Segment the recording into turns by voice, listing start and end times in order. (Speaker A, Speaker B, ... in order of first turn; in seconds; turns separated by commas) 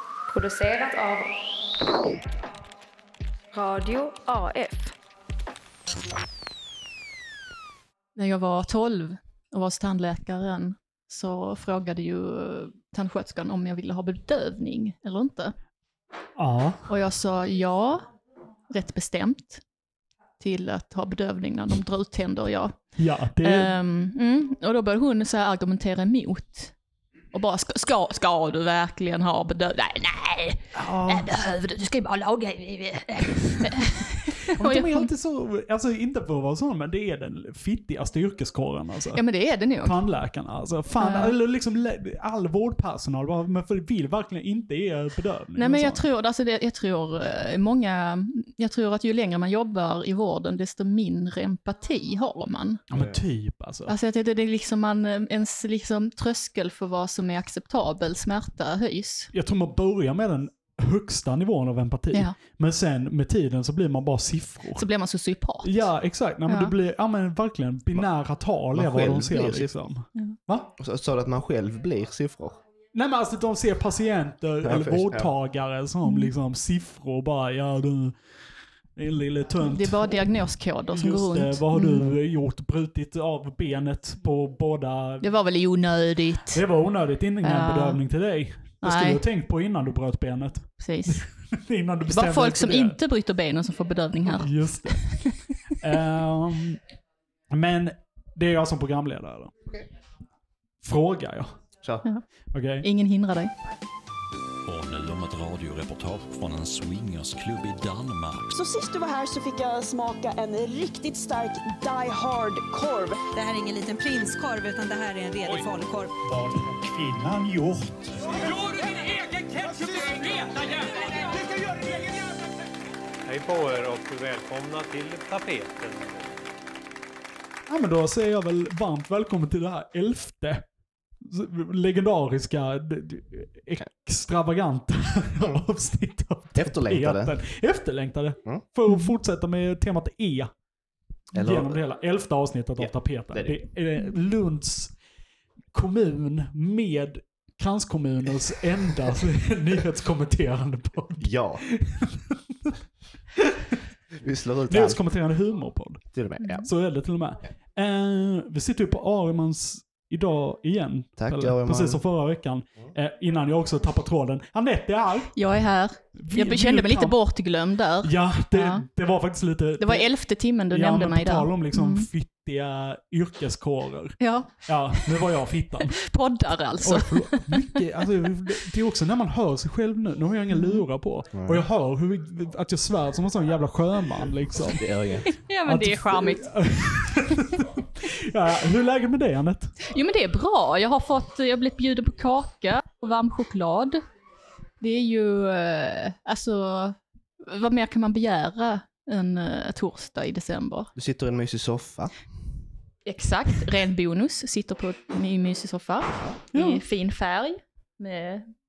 Speaker A: 0.3-1.7, Speaker A: 3.5-4.9, Speaker B: 8.2-15.5, Speaker C: 16.4-16.8, Speaker B: 16.9-18.0, Speaker B: 18.7-19.6, Speaker B: 20.4-22.8, Speaker C: 23.0-23.7, Speaker B: 23.4-26.7, Speaker B: 27.3-35.1, Speaker C: 30.7-31.4, Speaker C: 33.3-39.2, Speaker B: 39.1-40.0, Speaker C: 39.8-46.0, Speaker B: 41.0-41.3, Speaker B: 45.6-52.8, Speaker C: 52.9-53.9, Speaker D: 52.9-53.2, Speaker B: 53.9-59.3, Speaker C: 59.3-64.8, Speaker B: 64.8-65.9, Speaker C: 65.6-70.7, Speaker B: 66.5-66.7, Speaker D: 68.7-69.7, Speaker D: 70.8-72.6, Speaker C: 72.9-78.1, Speaker D: 74.6-75.3, Speaker B: 76.0-76.3, Speaker C: 79.0-80.2, Speaker B: 79.6-82.0, Speaker C: 80.9-85.2, Speaker B: 85.2-86.6, Speaker C: 86.5-93.0, Speaker B: 87.4-88.0, Speaker B: 88.8-89.2, Speaker B: 90.8-91.2, Speaker B: 92.0-95.3, Speaker C: 94.2-96.8, Speaker C: 97.5-99.5, Speaker C: 100.8-101.5, Speaker C: 102.5-102.9, Speaker B: 102.8-103.5, Speaker E: 104.6-108.5, Speaker F: 108.5-113.2, Speaker G: 113.3-116.2, Speaker C: 116.2-118.5, Speaker G: 118.3-121.4, Speaker C: 121.3-122.2, Speaker H: 123.2-126.3, Speaker C: 127.7-130.6, Speaker C: 131.2-140.5, Speaker D: 136.5-137.3, Speaker B: 138.9-139.1, Speaker D: 141.3-141.8, Speaker C: 141.3-144.9, Speaker D: 142.8-143.6, Speaker C: 145.7-152.8, Speaker D: 151.2-151.6, Speaker C: 153.4-153.7, Speaker D: 154.2-155.0, Speaker C: 154.7-156.0, Speaker D: 156.1-156.7, Speaker B: 156.4-156.7, Speaker C: 156.6-165.3, Speaker D: 161.2-162.0, Speaker B: 165.3-168.8, Speaker C: 166.2-167.2, Speaker C: 168.0-170.1, Speaker B: 169.8-172.1, Speaker C: 170.7-176.0, Speaker B: 174.2-175.1, Speaker B: 175.8-177.8, Speaker C: 176.8-184.9, Speaker B: 180.5-180.8, Speaker D: 181.3-181.6, Speaker D: 184.7-185.3, Speaker B: 185.2-186.5, Speaker C: 185.7-189.8, Speaker B: 189.8-194.0, Speaker B: 194.8-200.9, Speaker D: 200.9-202.1, Speaker B: 203.1-208.5, Speaker C: 206.5-206.8